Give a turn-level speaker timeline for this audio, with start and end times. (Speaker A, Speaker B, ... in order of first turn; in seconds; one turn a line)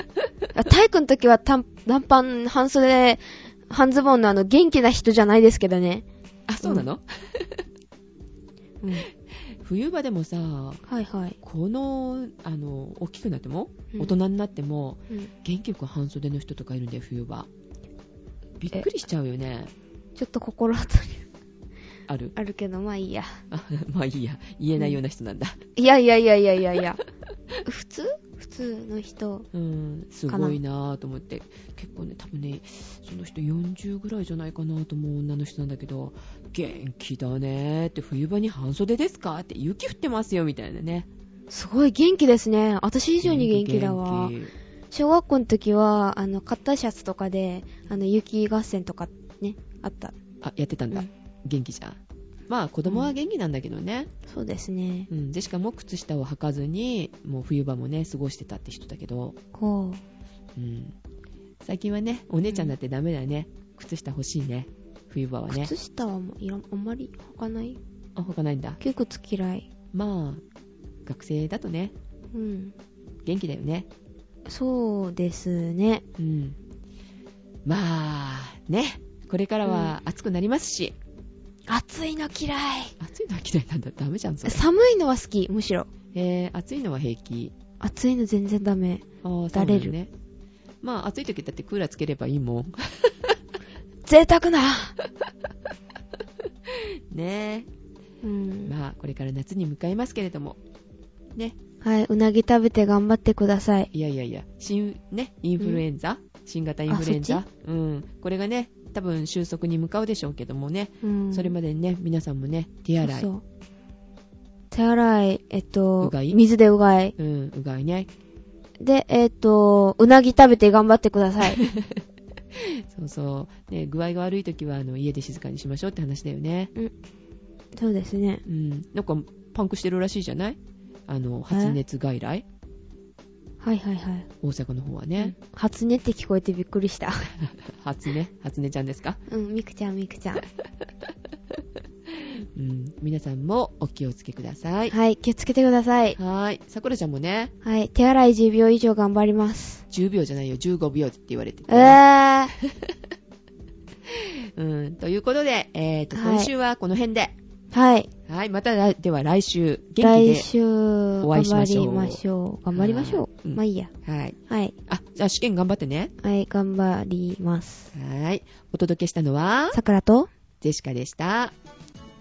Speaker A: 0.5-6.0
Speaker B: 6.5-7.6
Speaker A: 6.6-6.9
Speaker A: 8.8-9.1
Speaker B: 9.6-10.8
Speaker A: 10.9-11.4
Speaker B: 11.4-17.5
Speaker B: 18.6-19.7
Speaker A: 20.1-21.2
Speaker B: 22.1-22.3
Speaker A: 22.4-23.4
Speaker B: 23.5-25.6
Speaker A: 25.8-27.0
Speaker A: 27.6-29.5
Speaker B: 29.5-41.1
Speaker A: 30.3-30.6
Speaker A: 41.5-44.3
Speaker B: 43.2-44.5
Speaker A: 44.9-50.1
Speaker B: 50.4-54.1
Speaker A: 52.9-53.1
Speaker A: 54.3-55.1
Speaker B: 55.1-59.4
Speaker A: 59.5-60.0
Speaker B: 60.5-60.9
Speaker B: 61.6-65.7
Speaker A: 62.5-62.7
Speaker A: 65.5-67.8
Speaker B: 68.2-68.8
Speaker A: 68.8-69.7
Speaker B: 69.9-70.4
Speaker B: 71.0-71.9
Speaker A: 72.3-72.7
Speaker B: 73.2-73.9
Speaker A: 74.5-76.0
Speaker B: 76.2-76.6
Speaker B: 77.7-81.0
Speaker A: 79.6-79.9
Speaker A: 81.7-82.9
Speaker B: 83.0-84.6
Speaker A: 84.4-85.9
Speaker B: 86.1-87.5
Speaker A: 87.8-89.9
Speaker B: 89.2-90.1
Speaker B: 90.8-93.4
Speaker A: 94.0-95.0
Speaker B: 96.7-97.7
Speaker A: 98.2-98.7
Speaker B: 98.6-100.6
Speaker A: 101.8-103.9
Speaker B: 103.9-113.3
Speaker A: 106.9-107.4
Speaker A: 111.0-111.5
Speaker A: 113.0-113.4
Speaker A: 114.7-117.1
Speaker B: 116.0-116.4
Speaker B: 117.2-118.1
Speaker A: 118.8-121.6
Speaker B: 121.5-122.0
Speaker B: 122.5-126.7
Speaker A: 127.8-128.4
Speaker B: 128.4-132.4
Speaker A: 131.5-131.8
Speaker A: 133.6-134.3
Speaker B: 134.4-135.3
Speaker A: 135.2-137.3
Speaker B: 137.3-139.2
Speaker A: 139.3-140.4
Speaker B: 142.1-144.9
Speaker A: 144.9-146.2
Speaker B: 146.2-147.5
Speaker A: 147.6-149.8
Speaker B: 149.9-152.0
Speaker A: 151.7-152.5
Speaker B: 152.6-153.0
Speaker B: 154.1-157.3
Speaker A: 156.1-156.5
Speaker A: 157.7-158.1
Speaker B: 158.3-160.5
Speaker A: 160.0-163.9
Speaker B: 161.2-162.2
Speaker B: 162.7-166.1
Speaker A: 164.5-164.7
Speaker A: 166.2-167.9
Speaker B: 167.9-169.8
Speaker A: 169.7-170.3
Speaker B: 170.6-171.5